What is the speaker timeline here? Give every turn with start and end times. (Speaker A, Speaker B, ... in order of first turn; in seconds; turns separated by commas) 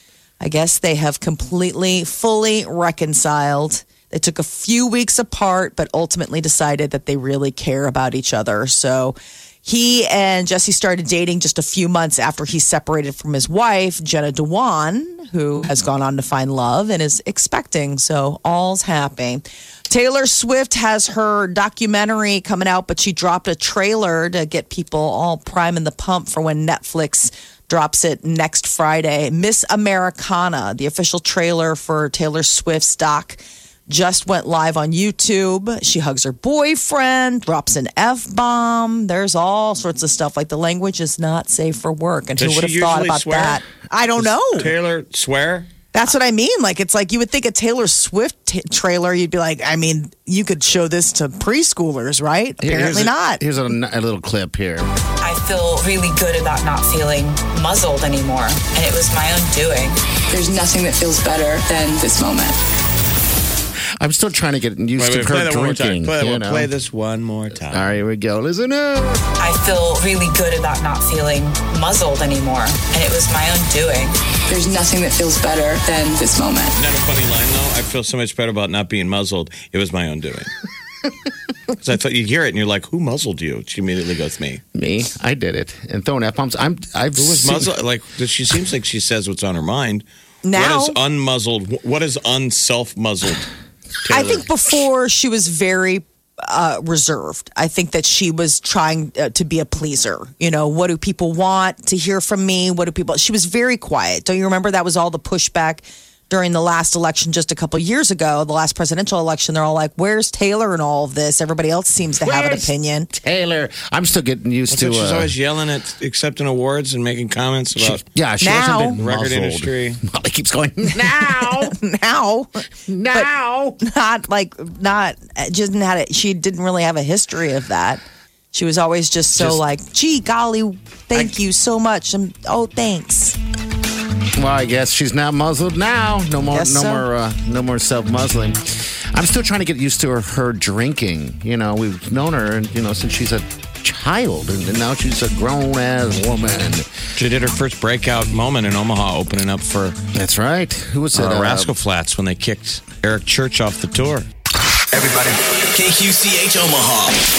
Speaker A: 0.4-44.7, Speaker B: 42.4-43.6, Speaker B: 44.2-45.7, Speaker A: 45.9-53.4, Speaker C: 52.6-54.9, Speaker D: 55.2-60.0, Speaker E: 60.3-62.6, Speaker C: 64.0-66.7, Speaker B: 65.0-68.0, Speaker C: 67.7-69.2, Speaker D: 69.4-74.2, Speaker E: 74.5-76.8, Speaker B: 76.8-80.5, Speaker B: 81.8-84.6, Speaker C: 84.7-87.7, Speaker B: 87.2-93.5, Speaker A: 90.4-91.0, Speaker B: 94.0-94.5, Speaker A: 94.1-113.1, Speaker C: 112.2-115.3, Speaker B: 114.7-118.0, Speaker C: 117.8-121.8, Speaker A: 118.4-119.0, Speaker B: 119.0-120.0, Speaker A: 121.0-133.4, Speaker C: 122.9-123.8, Speaker C: 134.3-138.6, Speaker A: 136.4-137.1, Speaker C: 139.1-146.9, Speaker B: 147.2-150.0, Speaker C: 150.1-151.7, Speaker B: 151.1-154.3, Speaker F: 154.9-157.2